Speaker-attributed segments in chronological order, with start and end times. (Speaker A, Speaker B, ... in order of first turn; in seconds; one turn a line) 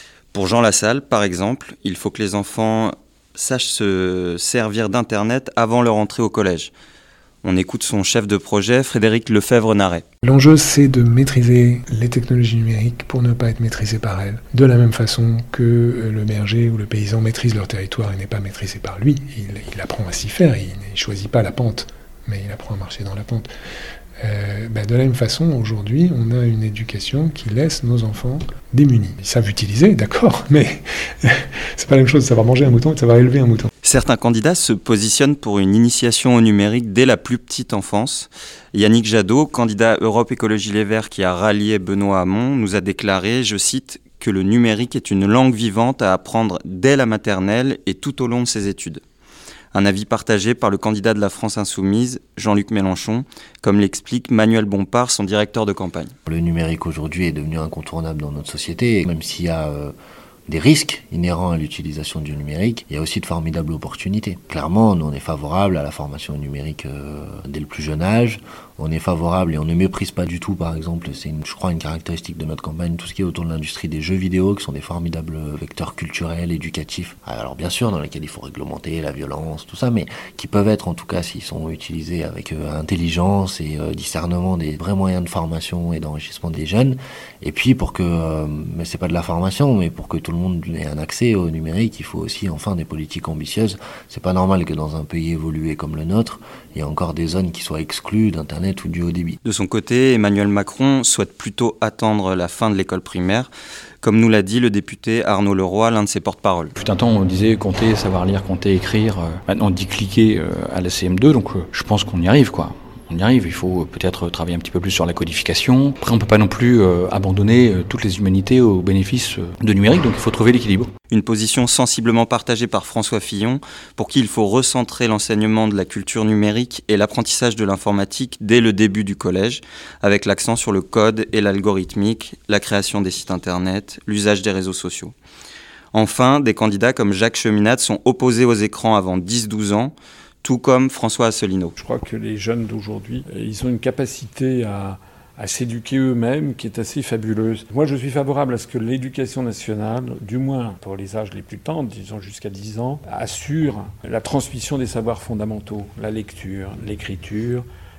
Speaker A: 0.3-6.7
Speaker A: 7.4-10.0
Speaker B: 10.2-23.5
Speaker B: 24.2-33.7
Speaker A: 33.8-49.0
Speaker A: 49.7-56.1
Speaker C: 56.3-60.0
Speaker C: 60.5-99.4
Speaker A: 99.5-103.5
Speaker A: 104.0-106.7
Speaker D: 106.8-120.9
Speaker A: 121.1-135.1
Speaker A: 135.9-141.8
Speaker E: 141.8-157.6